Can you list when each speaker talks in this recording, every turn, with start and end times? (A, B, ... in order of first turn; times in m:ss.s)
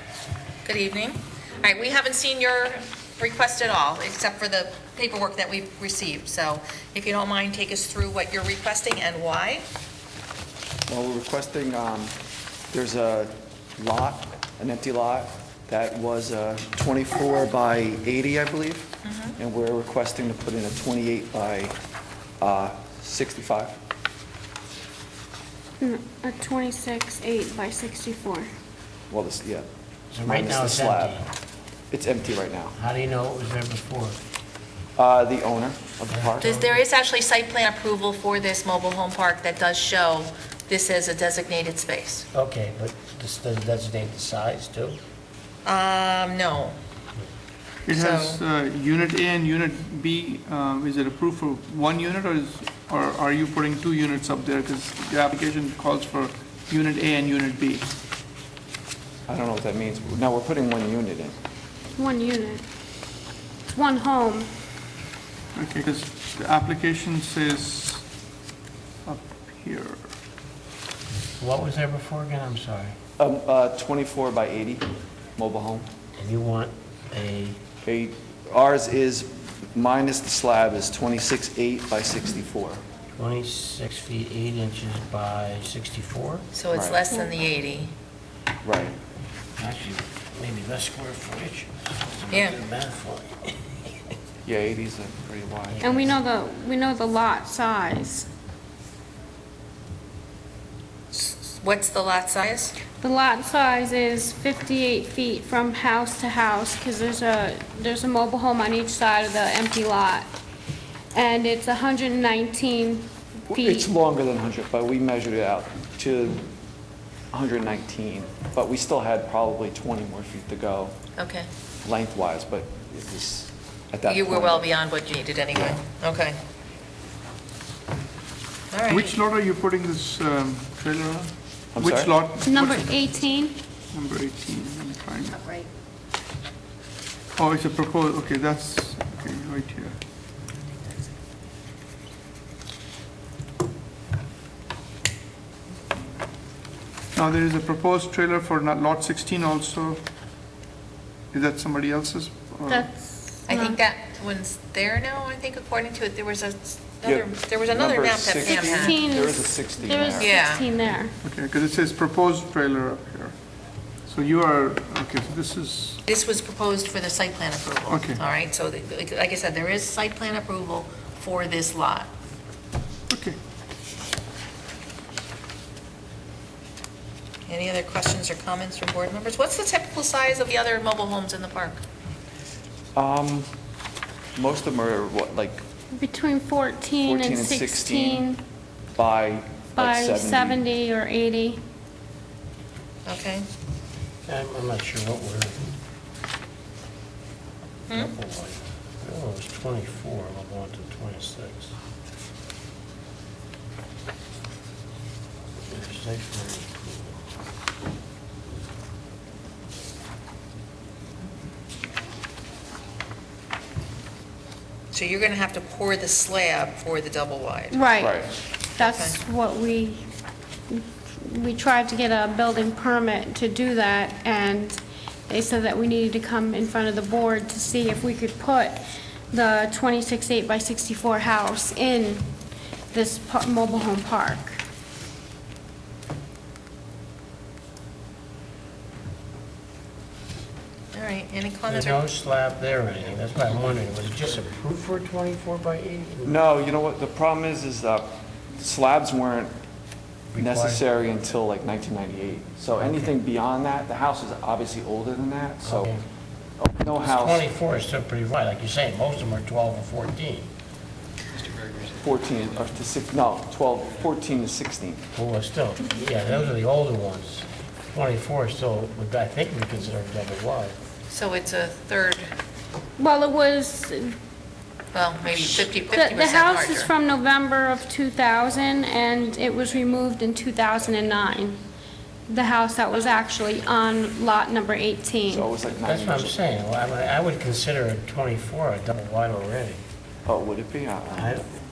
0:00.6-0:09.7 A
0:10.9-0:12.1 B
0:12.7-0:21.8 B
0:19.0-0:19.4 A
0:22.4-0:23.8 B
0:25.8-0:28.5 C
0:29.1-0:29.6 B
0:30.1-0:31.3 D
0:30.2-0:31.2 B
0:31.9-0:32.7 B
0:32.7-0:34.2 D
0:35.0-0:36.6 B
0:36.1-0:36.8 D
0:36.4-0:42.3 A
0:42.3-0:45.0 D
0:45.6-0:46.8 A
0:47.8-0:57.9 E
0:47.9-0:48.4 A
0:59.3-1:01.4 B
1:02.0-1:02.6 C
1:03.7-1:04.5 C
1:05.5-1:08.0 E
1:09.0-1:10.0 E
1:11.4-1:13.0 D
1:13.2-1:15.9 B
1:16.2-1:17.6 D
1:17.8-1:22.8 B
1:23.2-1:26.5 D
1:26.5-1:27.9 A
1:26.7-1:27.0 B
1:28.6-1:29.0 B
1:29.6-1:33.9 D
1:32.3-1:32.6 A
1:34.4-1:35.9 B
1:35.8-1:36.2 D
1:35.8-1:38.3 C
1:41.1-1:42.8 A
1:43.0-1:50.3 C
1:51.1-1:53.9 C
1:53.5-1:56.5 B
1:57.3-2:01.0 B
2:01.2-2:01.5 A
2:01.8-2:04.7 B
2:04.0-2:06.4 A
2:08.7-2:09.1 A
2:08.9-2:12.9 E
2:11.7-2:12.1 B
2:12.4-2:13.6 C
2:13.9-2:15.4 E
2:15.4-2:15.6 A
2:17.4-2:20.0 E
2:27.1-2:30.0 E
2:31.3-2:32.9 E
2:32.7-2:33.8 C
2:33.5-2:39.2 A
2:37.0-2:40.3 B
2:38.4-2:41.1 C
2:40.2-2:40.6 A
2:41.2-2:43.3 E
2:44.1-2:46.0 E
2:46.0-2:52.1 A
2:47.9-2:48.2 E
2:53.1-2:53.4 E
2:57.5-3:01.8 A
3:02.9-3:03.5 B
3:04.4-3:05.6 B
3:05.9-3:08.4 C
3:07.0-3:08.3 B
3:09.0-3:10.6 B
3:09.8-3:11.6 C
3:13.0-3:13.4 A
3:14.3-3:15.7 D
3:17.9-3:21.7 D
3:25.7-3:27.2 D
3:34.9-3:37.9 A
3:37.7-3:40.1 C
3:38.0-3:38.3 B
3:38.8-3:39.2 A
3:40.7-3:52.3 C
3:52.9-3:54.6 C
4:00.9-4:02.0 A
4:01.7-4:06.4 D
4:06.2-4:09.5 B
4:10.3-4:10.8 D
4:10.4-4:15.9 B
4:12.8-4:13.1 D
4:15.6-4:16.0 D
4:16.6-4:17.4 B
4:17.0-4:20.5 D
4:22.0-4:25.0 B
4:25.1-4:30.8 D
4:31.1-4:32.3 A
4:33.0-4:34.2 C
4:34.9-4:36.9 A
4:35.3-4:41.6 C
4:42.3-4:45.5 C
4:45.3-4:46.4 B
4:45.8-4:49.8 D
4:50.2-4:51.3 B
4:51.1-4:51.5 D